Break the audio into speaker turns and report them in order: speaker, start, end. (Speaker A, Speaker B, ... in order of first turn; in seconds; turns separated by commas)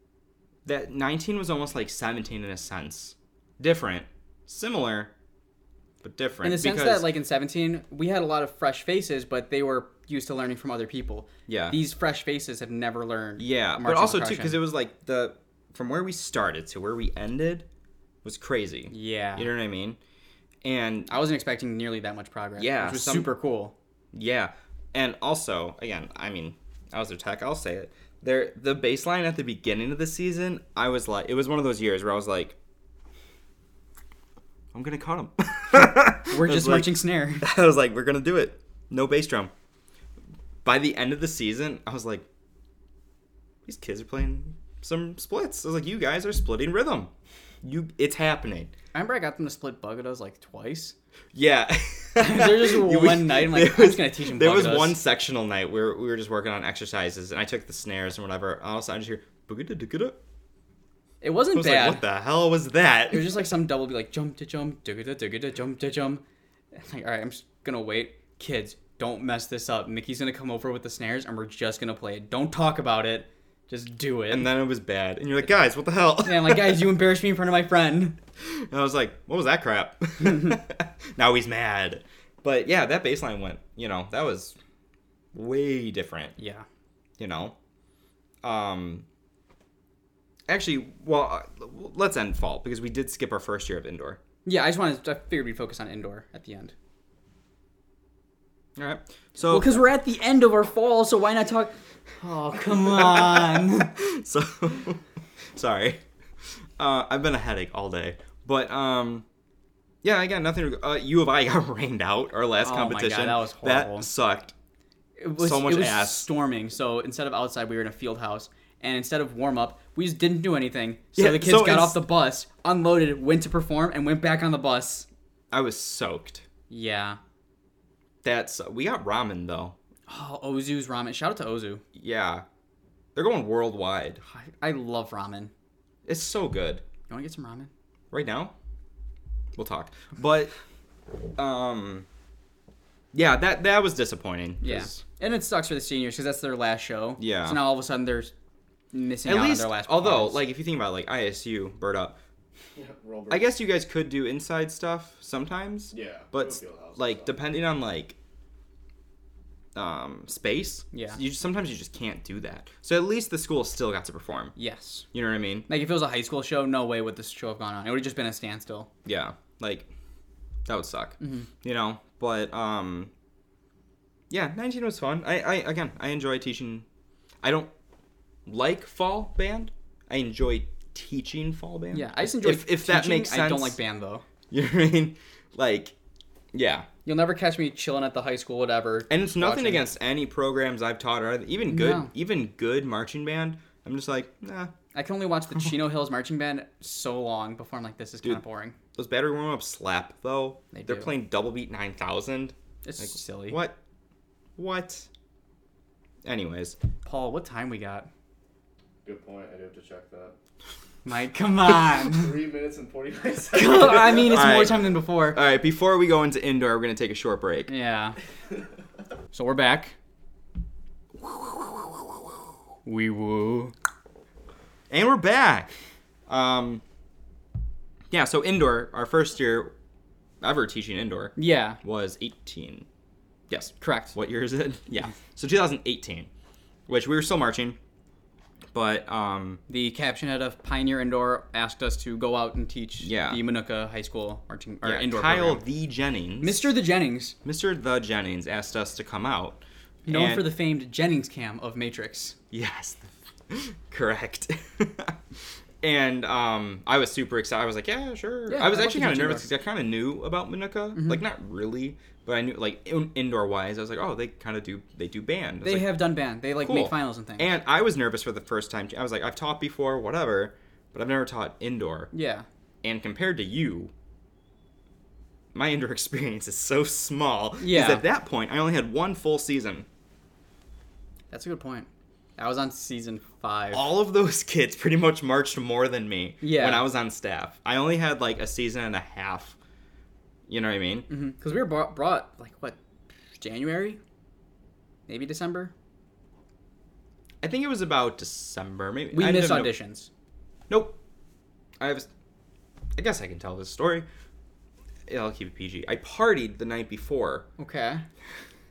Speaker A: 0.7-5.1, Speaker A: 6.0-7.1, Speaker B: 6.4-14.6, Speaker A: 11.5-11.8, Speaker A: 13.4-17.7, Speaker A: 18.2-20.0, Speaker B: 18.9-19.5, Speaker A: 20.6-21.1, Speaker B: 21.1-23.8, Speaker A: 22.6-23.3, Speaker A: 24.1-32.6, Speaker A: 34.7-39.5, Speaker B: 36.2-37.5, Speaker A: 40.6-42.3, Speaker A: 43.6-47.1, Speaker A: 47.6-48.7, Speaker B: 48.9-51.0, Speaker A: 51.3-60.2, Speaker B: 52.2-55.0, Speaker B: 61.2-62.0, Speaker A: 61.5-63.4, Speaker B: 63.1-66.2, Speaker B: 66.7-74.5, Speaker A: 74.3-76.9, Speaker B: 76.2-78.2, Speaker A: 78.4-84.6, Speaker A: 85.3-86.4, Speaker B: 86.4-86.7, Speaker A: 87.2-87.6, Speaker A: 88.4-89.1, Speaker A: 90.5-94.2, Speaker B: 94.5-96.7, Speaker A: 98.8-99.8, Speaker B: 99.4-103.9, Speaker A: 103.0-105.0, Speaker A: 105.5-106.0, Speaker A: 106.8-109.2, Speaker A: 110.0-114.5, Speaker B: 112.6-114.1, Speaker B: 115.2-125.1, Speaker A: 115.4-116.3, Speaker A: 121.2-122.0, Speaker A: 125.5-126.5, Speaker B: 126.7-127.2, Speaker A: 128.2-129.8, Speaker B: 130.1-131.8, Speaker A: 131.9-132.4, Speaker A: 133.2-134.2, Speaker B: 134.2-135.5, Speaker A: 136.1-136.8, Speaker B: 137.1-137.7, Speaker A: 138.1-138.5, Speaker A: 139.6-140.5, Speaker A: 141.4-142.1, Speaker A: 143.1-145.0, Speaker B: 144.6-148.3, Speaker A: 147.2-147.6, Speaker B: 148.9-150.4, Speaker A: 149.2-152.2, Speaker C: 152.8-153.5, Speaker A: 153.3-158.2, Speaker C: 155.9-157.3, Speaker A: 159.8-164.6, Speaker B: 160.9-161.2, Speaker B: 164.6-165.1, Speaker A: 165.1-165.7, Speaker B: 165.7-168.9, Speaker A: 169.1-169.9, Speaker A: 170.7-173.1, Speaker B: 171.2-171.5, Speaker A: 174.3-176.9, Speaker A: 177.4-177.7, Speaker A: 178.5-183.8, Speaker B: 181.9-184.2, Speaker A: 184.5-185.9, Speaker A: 186.5-186.9, Speaker B: 187.1-189.8, Speaker A: 189.1-194.7, Speaker B: 191.7-192.1, Speaker B: 194.9-198.8, Speaker A: 198.9-203.8, Speaker B: 200.7-201.1, Speaker B: 202.8-203.6, Speaker A: 204.6-205.1, Speaker A: 206.2-206.8, Speaker B: 207.0-208.1, Speaker C: 209.1-210.3, Speaker B: 211.1-212.4, Speaker C: 212.1-214.4, Speaker B: 213.5-215.4, Speaker A: 214.1-217.7, Speaker B: 217.7-218.2, Speaker B: 219.3-219.9, Speaker B: 222.9-223.7, Speaker A: 224.9-225.7, Speaker A: 226.3-226.8, Speaker A: 228.1-229.7, Speaker A: 230.4-232.9, Speaker B: 231.4-231.8, Speaker A: 233.5-236.3, Speaker B: 233.8-234.2, Speaker A: 236.9-237.8, Speaker A: 238.7-239.6, Speaker B: 239.7-245.6, Speaker A: 243.0-243.4, Speaker A: 244.8-246.8, Speaker B: 246.4-247.4, Speaker A: 247.4-250.5, Speaker B: 250.1-252.3, Speaker A: 252.5-255.2, Speaker A: 255.8-265.9, Speaker B: 258.5-259.5, Speaker B: 260.9-261.2, Speaker B: 265.6-267.5, Speaker A: 266.6-272.1, Speaker B: 272.1-272.5, Speaker A: 272.8-273.9, Speaker A: 275.5-279.9, Speaker B: 277.6-278.0, Speaker B: 281.3-283.9, Speaker A: 283.7-289.6, Speaker B: 286.4-286.9, Speaker A: 290.5-291.1, Speaker B: 291.1-292.8, Speaker B: 293.4-294.0, Speaker B: 295.1-295.7, Speaker A: 297.4-299.7, Speaker B: 299.1-300.1, Speaker A: 300.7-301.0, Speaker A: 301.8-302.1, Speaker A: 303.0-304.1, Speaker A: 305.1-307.5, Speaker B: 307.6-308.0